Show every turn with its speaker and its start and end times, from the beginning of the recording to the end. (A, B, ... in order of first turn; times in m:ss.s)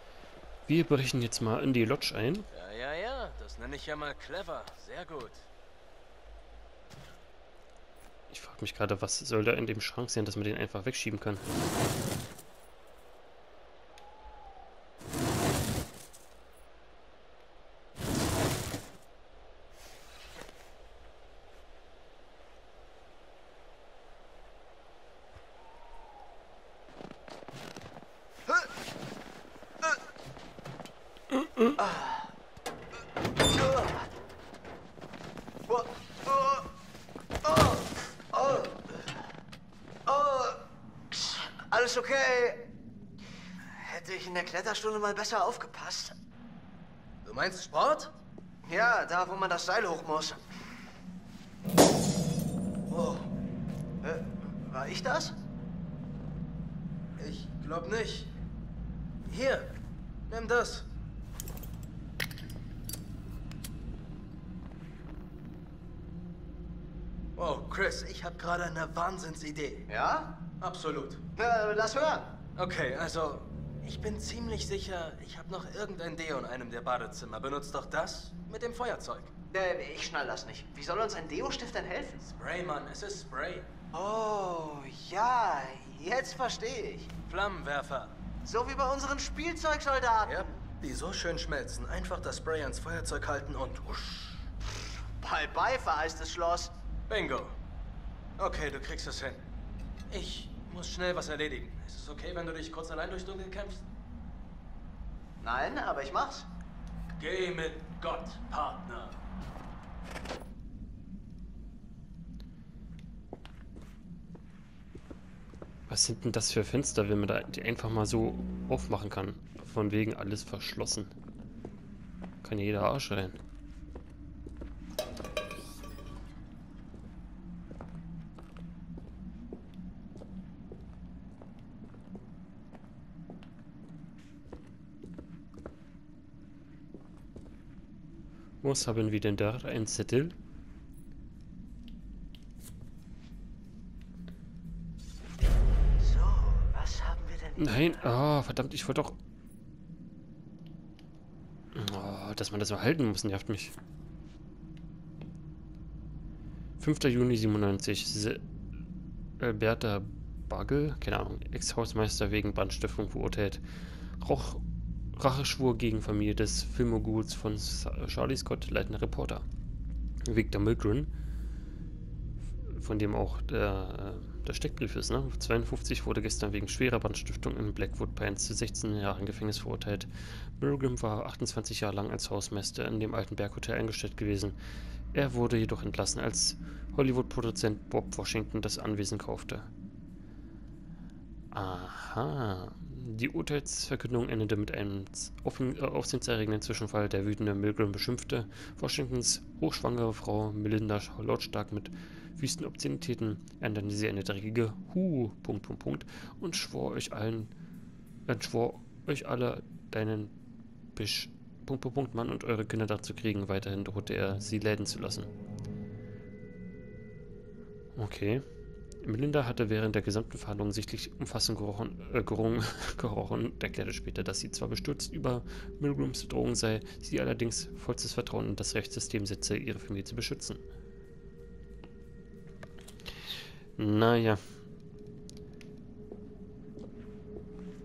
0:00.7-0:02.5 A
0:02.5-0:05.4 B
0:08.3-0:11.4 A
0:31.8-0:32.3 C
0:33.4-0:34.0 C
0:35.7-0:36.7 C
0:37.4-0:39.1 C
0:40.1-0:42.7 C
0:43.6-0:46.2 C
0:47.2-0:48.2 B
0:48.6-0:50.4 C
0:52.9-0:53.3 B
0:54.0-0:55.4 C
0:57.2-0:58.3 B
0:59.3-0:59.7 B
1:00.3-1:00.8 B
1:07.4-1:09.9 B
1:09.9-1:10.3 C
1:10.6-1:11.2 B
1:11.4-1:12.3 C
1:12.6-1:19.3 B
1:19.5-1:22.2 C
1:22.2-1:23.7 B
1:23.9-1:27.1 C
1:27.3-1:28.1 B
1:28.4-1:30.6 C
1:30.2-1:34.4 B
1:35.2-1:36.7 C
1:37.1-1:37.5 B
1:38.4-1:39.4 B
1:40.1-1:43.8 B
1:45.4-1:46.4 C
1:47.2-1:49.1 B
1:55.9-2:01.1 A
2:02.4-2:03.4 A
2:18.6-2:20.3 A
2:26.0-2:28.1 C
2:27.6-2:29.2 A
2:31.7-2:33.7 A
2:36.8-2:38.4 A
2:39.4-2:43.6 A
2:44.2-2:44.6 A
2:45.1-2:49.4 A
2:50.2-2:51.1 A
2:52.7-3:04.6 A
3:05.1-3:09.7 A
3:11.5-3:27.5 A
3:28.3-3:30.3 A
3:30.9-3:35.3 A
3:37.9-3:38.4 A
3:39.0-3:50.6 A
3:53.8-3:54.4 A